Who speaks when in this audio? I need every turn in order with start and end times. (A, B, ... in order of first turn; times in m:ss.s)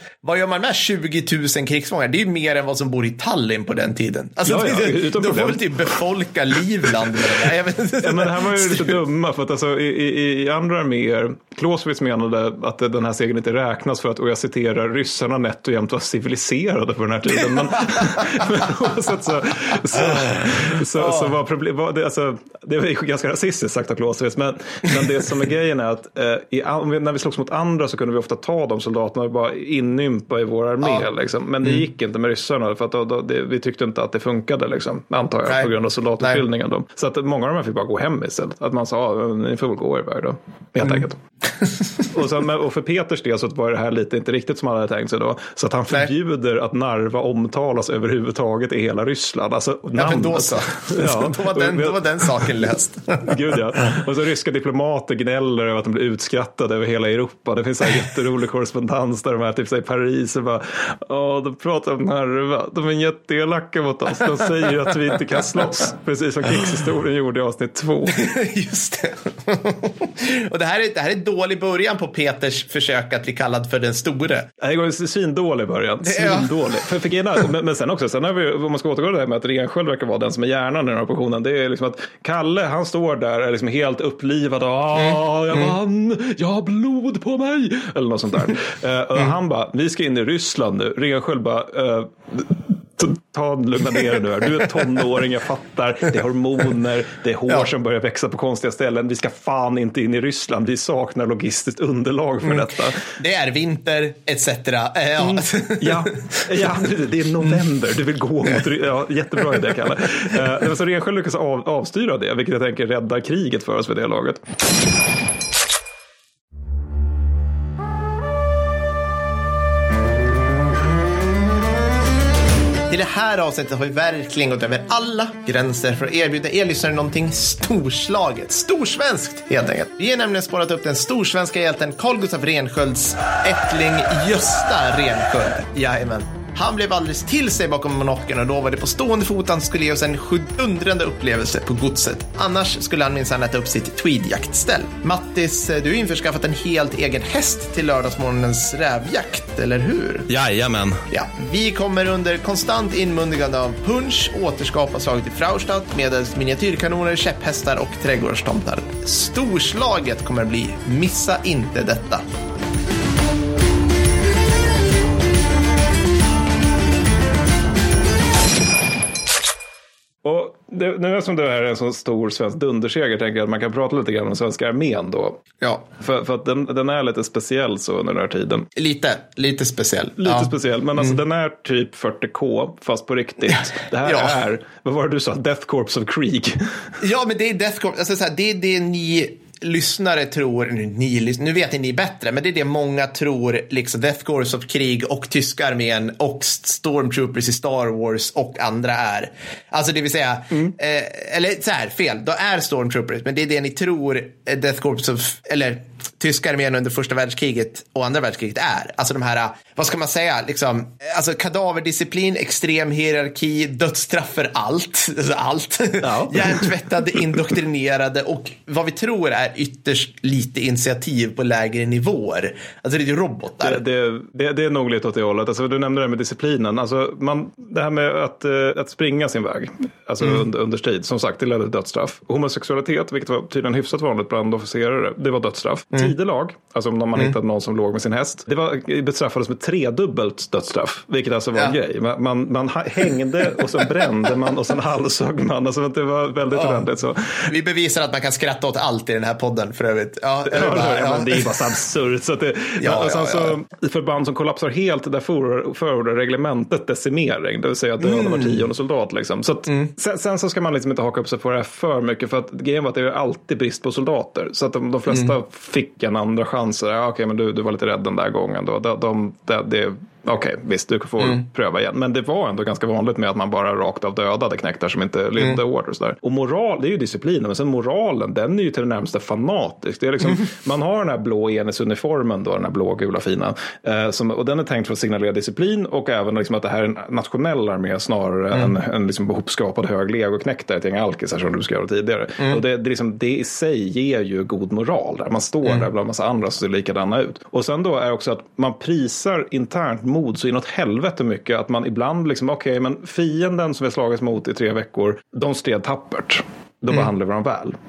0:00.2-0:08.9 A
0:04.4-0:05.8 B
0:08.0-0:41.2 B
0:18.4-0:18.6 A
0:21.0-0:21.3 A
0:35.5-0:36.4 A
0:42.1-0:52.5 B
0:49.9-0:54.0 A
0:53.2-1:08.3 B
1:08.1-1:14.5 A
1:14.6-1:43.0 B
1:16.0-1:16.5 A
1:25.0-1:25.7 A
1:42.4-1:46.4 A
1:45.2-1:54.4 B
2:02.9-2:30.3 A
2:30.3-2:31.0 B
2:31.1-2:42.2 A
2:50.2-2:58.7 B
2:58.8-3:01.2 A
3:00.2-3:06.6 B
3:03.5-3:04.4 A
3:07.0-3:43.8 A
3:36.0-3:37.2 B
3:43.6-4:07.4 B
4:06.5-4:06.8 A
4:07.4-4:11.5 A
4:10.4-5:07.8 B
4:12.8-4:13.6 A
4:18.0-4:18.6 A